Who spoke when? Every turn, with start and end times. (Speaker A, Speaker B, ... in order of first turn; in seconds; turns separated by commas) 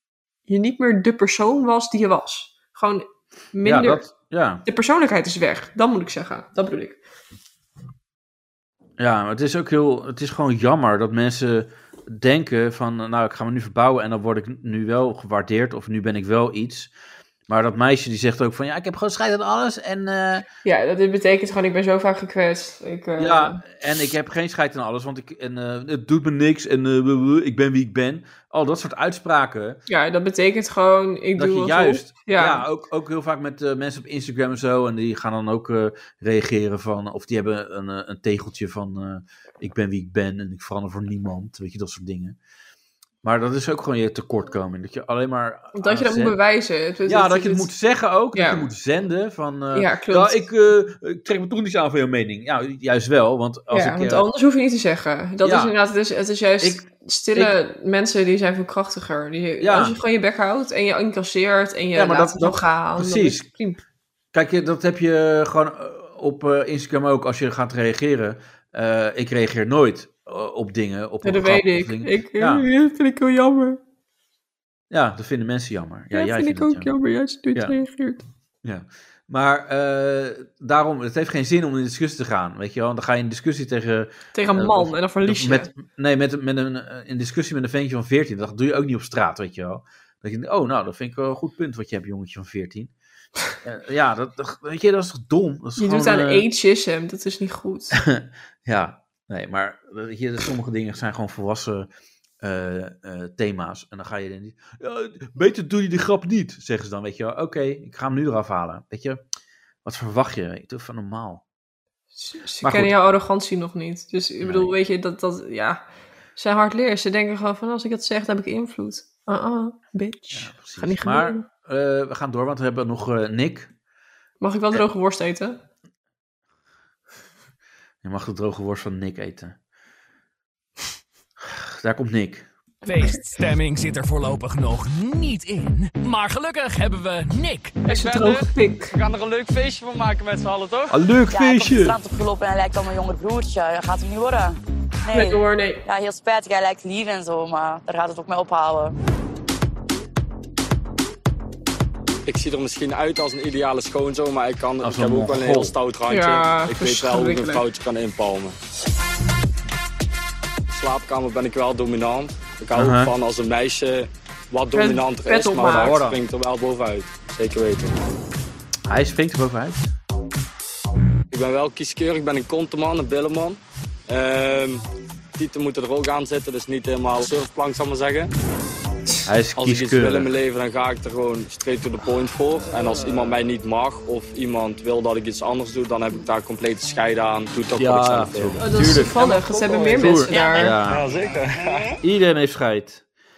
Speaker A: 0.5-4.1, Speaker B: 3.6-4.6, Speaker A: 4.7-7.0, Speaker B: 9.0-16.9, Speaker B: 17.5-20.4, Speaker A: 20.6-23.6, Speaker B: 23.2-29.8, Speaker A: 29.9-32.7, Speaker B: 31.4-42.4, Speaker B: 43.2-46.4, Speaker A: 45.7-47.7, Speaker B: 47.1-54.3, Speaker A: 48.3-48.7, Speaker A: 49.7-50.5, Speaker A: 53.7-63.8, Speaker B: 55.4-55.7, Speaker B: 56.6-57.5, Speaker B: 59.6-60.0, Speaker B: 62.0-63.5, Speaker B: 64.3-72.7, Speaker A: 71.2-73.8, Speaker B: 74.9-76.9, Speaker A: 76.1-78.2, Speaker B: 78.6-92.9, Speaker A: 84.3-85.7, Speaker B: 93.7-96.5, Speaker A: 95.8-98.0, Speaker B: 98.0-101.9, Speaker B: 102.4-109.2, Speaker B: 109.8-111.4, Speaker A: 112.2-115.8, Speaker B: 112.6-112.9, Speaker B: 114.4-114.7, Speaker A: 116.4-121.5, Speaker B: 120.3-123.7, Speaker A: 124.4-125.6, Speaker B: 128.0-129.6, Speaker B: 131.5-132.5, Speaker C: 132.8-137.9, Speaker A: 137.9-138.9, Speaker D: 137.9-140.9, Speaker B: 140.9-142.0, Speaker E: 141.3-148.9, Speaker A: 145.1-145.8, Speaker D: 152.3-158.6, Speaker B: 154.8-155.8, Speaker A: 156.1-157.7, Speaker D: 160.7-168.0, Speaker B: 162.7-163.1, Speaker A: 164.7-166.1, Speaker B: 165.6-166.2, Speaker B: 168.9-169.9, Speaker D: 171.3-174.8, Speaker D: 175.4-178.3, Speaker B: 179.3-180.3, Speaker D: 179.6-188.7, Speaker B: 187.8-191.1, Speaker A: 188.6-190.8, Speaker D: 189.5-190.1, Speaker E: 190.3-190.7, Speaker B: 192.0-193.0